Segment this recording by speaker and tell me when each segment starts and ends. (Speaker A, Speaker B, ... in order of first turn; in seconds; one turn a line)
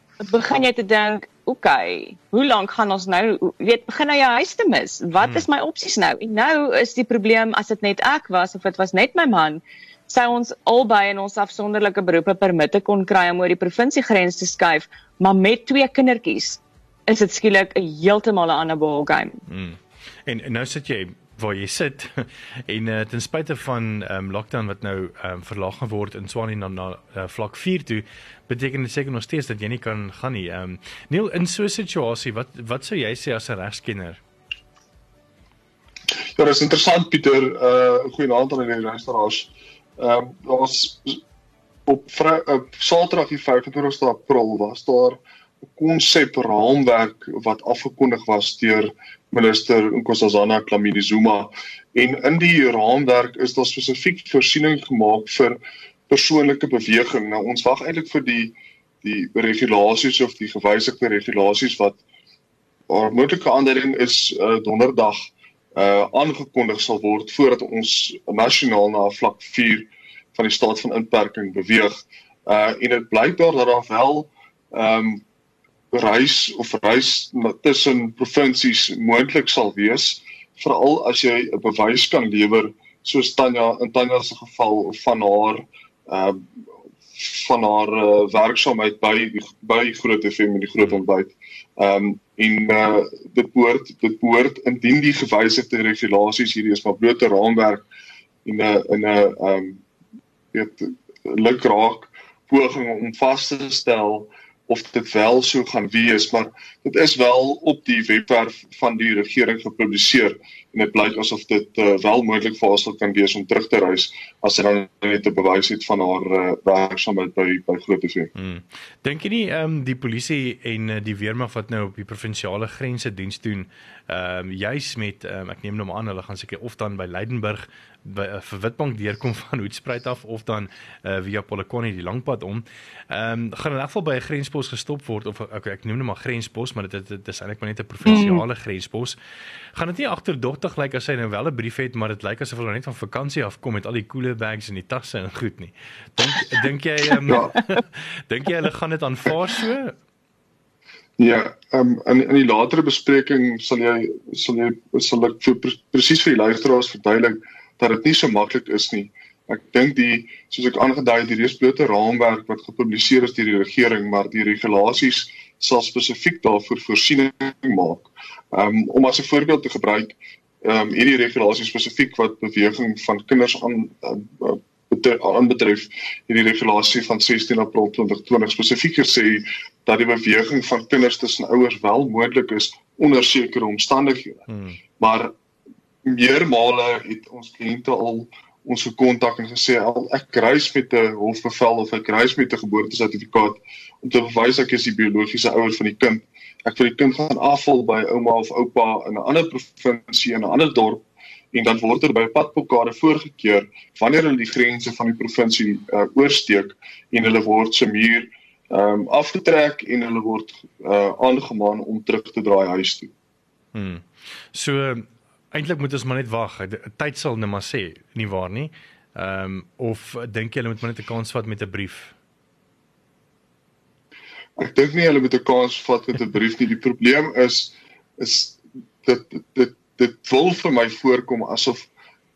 Speaker A: 0.2-19.4
Speaker B: 5.2-5.5
Speaker B: 19.5-34.2
Speaker C: 36.4-41.2
Speaker C: 41.9-62.0
Speaker C: 62.9-72.0
Speaker C: 72.5-75.2
Speaker C: 75.9-86.5
Speaker C: 87.1-97.9
Speaker C: 98.5-99.8
Speaker C: 100.5-118.3
Speaker B: 118.3-139.2
Speaker A: 138.1-138.4
Speaker B: 139.7-150.0
Speaker C: 147.3-147.5
Speaker C: 151.2-184.5
Speaker B: 184.5-184.8
Speaker C: 185.0-185.3
Speaker C: 186.0-213.1
Speaker B: 213.7-222.2
Speaker C: 224.6-231.9